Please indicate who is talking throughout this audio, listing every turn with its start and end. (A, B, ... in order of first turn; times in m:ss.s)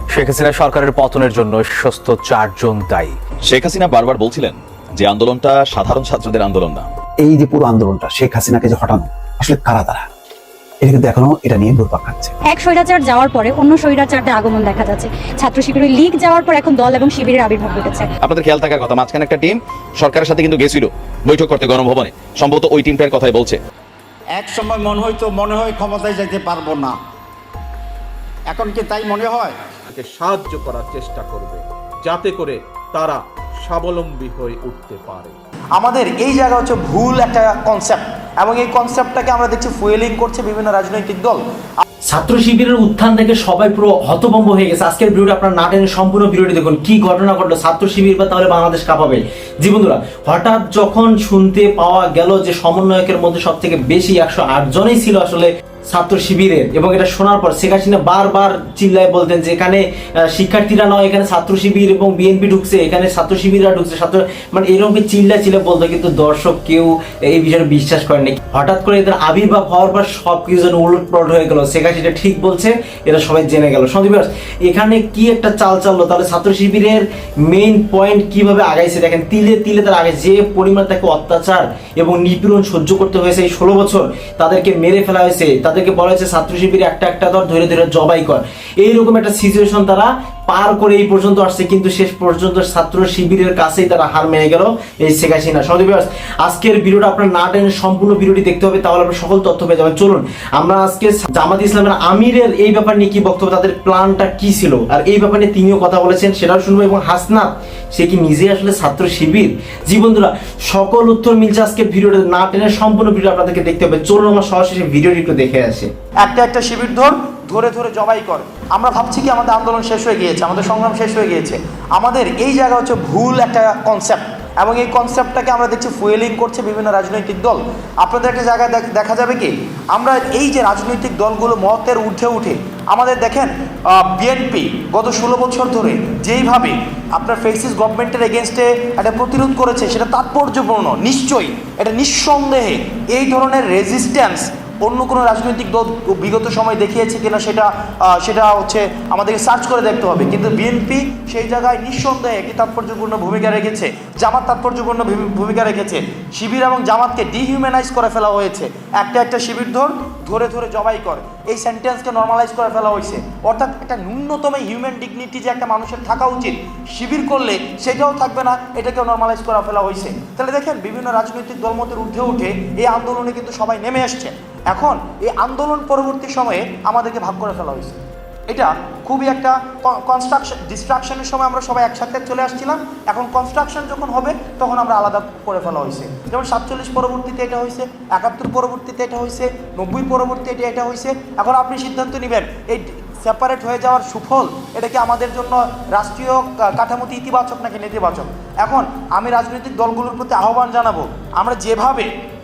0:00.2-0:01.8 A
0:02.8-0:03.1 A
0:03.5-0:06.8 B
0:07.2-0:10.1 C
0:10.8-0:12.3 C
0:12.5-0:18.1 D
0:18.2-0:23.6 B
0:24.3-0:27.0 E
0:28.5-0:29.6 E
0:29.9-0:35.4 F
0:35.7-0:41.8 G
0:42.1-1:55.9 H
1:56.2-3:22.1 G